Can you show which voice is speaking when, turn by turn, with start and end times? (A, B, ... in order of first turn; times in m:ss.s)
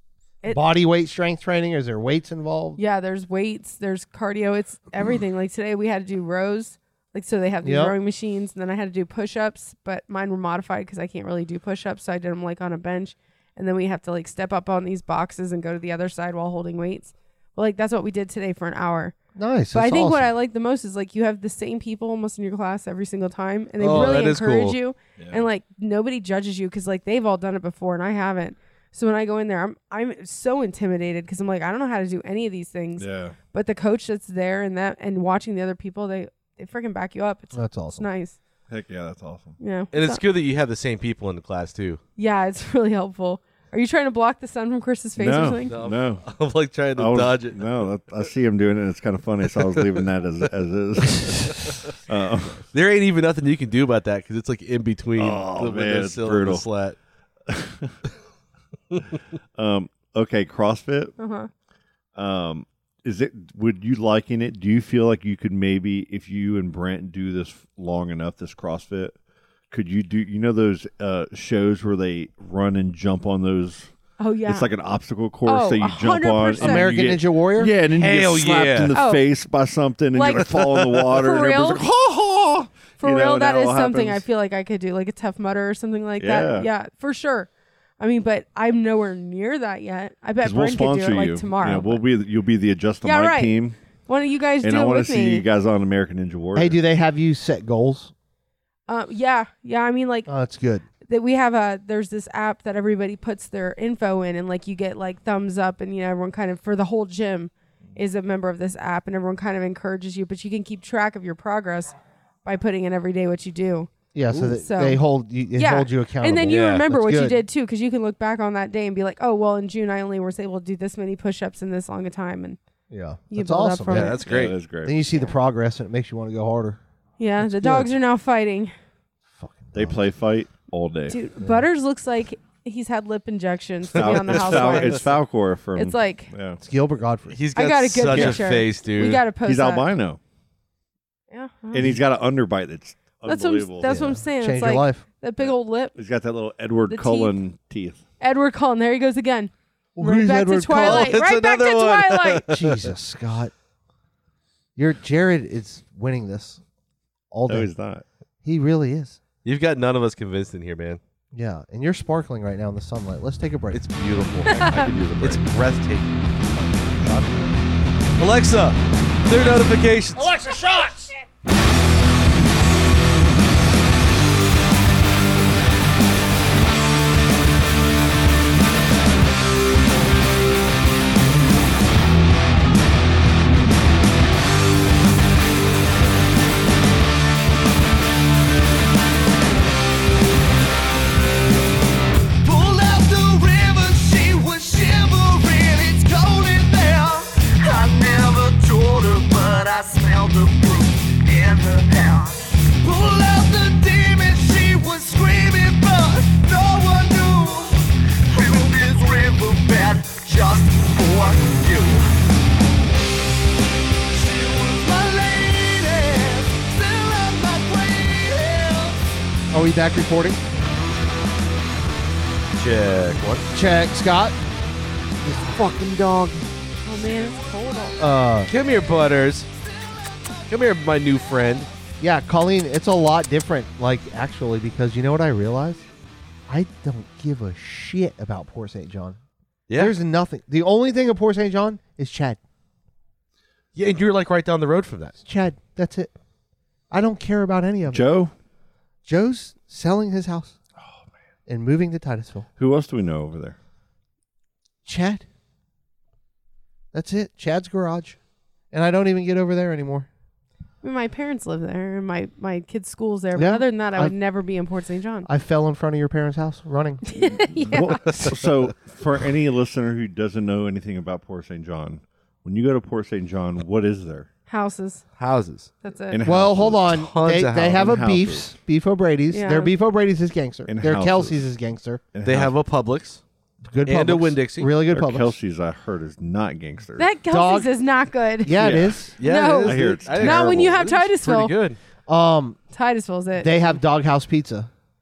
0:00.5-0:02.8 A
0:02.8-0:19.2 B
0:07.6-0:08.0 A
0:19.4-0:20.3 A
0:19.7-0:38.4 B
0:23.8-0:24.8 C
0:25.2-0:25.4 D
0:33.0-0:33.4 D
0:37.5-0:38.0 A
0:38.7-0:39.6 D
0:39.6-0:40.2 B
0:39.9-0:42.0 C
0:42.2-0:45.7 B
0:45.2-0:46.2 D
0:45.7-0:47.6 C
0:46.9-0:52.6 D
0:52.7-0:57.0 C
0:55.2-0:56.6 D
0:57.5-0:58.0 D
0:59.5-1:01.1 D
1:01.2-1:01.5 B
1:02.2-1:09.2 D
1:09.7-1:13.9 D
1:14.2-1:14.7 B
1:14.4-1:24.2 D
1:15.4-1:17.0 B
1:16.6-1:17.7 A
1:17.9-1:19.0 C
1:18.9-1:19.2 B
1:20.1-1:21.8 B
1:23.0-1:32.0 B
1:26.2-1:26.7 D
1:30.4-1:33.8 D
1:33.0-1:35.4 B
1:34.6-1:36.8 D
1:36.5-1:38.1 A
1:38.9-1:40.3 B
1:40.3-1:40.8 A
1:41.1-1:53.9 B
1:54.1-1:57.4 A
1:54.6-1:55.0 B
1:55.5-2:02.6 B
1:56.4-1:56.8 C
2:02.9-2:04.2 A
2:03.3-2:04.2 B
2:03.9-2:04.6 C
2:04.2-2:05.0 D
2:04.8-2:06.8 A
2:07.2-2:08.7 B
2:07.4-2:07.9 A
2:09.3-2:10.0 A
2:09.7-2:11.2 D
2:11.1-2:15.2 B
2:11.4-2:11.6 A
2:13.9-2:16.6 D
2:13.9-2:14.8 C
2:15.7-2:16.3 B
2:16.6-2:17.4 A
2:17.3-2:19.2 C
2:17.5-2:19.9 B
2:18.1-2:18.4 D
2:19.4-2:20.2 D
2:21.3-2:22.0 B
2:21.7-2:23.9 D
2:23.2-2:25.9 B
2:23.8-2:25.0 A
2:25.4-2:28.0 D
2:26.9-2:27.3 B
2:28.2-2:32.5 B
2:30.0-2:31.2 A
2:30.8-2:32.8 C
2:32.5-2:33.5 A
2:34.8-2:36.6 A
2:37.3-2:37.7 A
2:37.5-2:38.0 D
2:38.4-2:39.2 A
2:39.4-2:41.0 C
2:41.3-2:43.8 A
2:43.7-2:46.2 C
2:44.4-2:45.4 D
2:44.5-2:44.9 B
2:47.0-2:47.6 D
2:48.2-2:50.3 C
2:50.2-2:51.2 A
3:12.4-3:32.1 E
3:34.1-3:39.0 E
3:39.5-3:40.4 A
3:42.6-3:43.5 C
3:43.5-3:44.4 A
3:45.2-3:46.4 A
3:46.8-3:48.0 B
3:48.0-3:48.5 A
3:48.5-3:49.5 C
3:49.9-3:50.4 E
3:50.5-3:51.7 C
3:52.0-3:55.8 A
3:56.5-3:59.2 A
3:59.7-4:00.0 C
3:59.7-4:02.4 A
4:03.7-4:05.1 C
4:05.2-4:06.1 A
4:06.9-4:08.0 A
4:07.9-4:08.3 D
4:09.0-4:10.6 A
4:11.5-4:12.5 A
4:12.6-4:13.6 D
4:14.8-4:15.2 A
4:16.9-4:18.2 A
4:18.7-4:20.1 A
4:20.8-4:25.3 B
4:23.3-4:24.1 A
4:25.2-4:27.4 A
4:27.0-4:28.2 B
4:27.6-4:34.3 D
4:34.5-4:35.0 B
4:35.2-4:35.7 C
4:35.8-4:36.2 B
4:36.1-4:37.1 D
4:36.2-4:42.0 A
4:36.9-4:37.9 C
4:37.6-4:38.5 D
4:39.3-4:39.7 B
4:40.7-4:41.4 D
4:42.1-4:42.5 D
4:42.2-4:43.2 C
4:43.6-4:45.4 A
4:43.8-4:44.7 C
4:44.9-4:47.1 D
4:47.0-4:48.6 B
4:47.3-4:47.7 A
4:48.4-4:49.1 A
4:48.6-4:49.0 D
4:49.2-4:51.5 B
4:49.2-4:51.8 C
4:49.6-4:50.7 D
4:52.1-4:52.6 A
4:52.7-4:53.6 B
4:53.4-4:54.7 A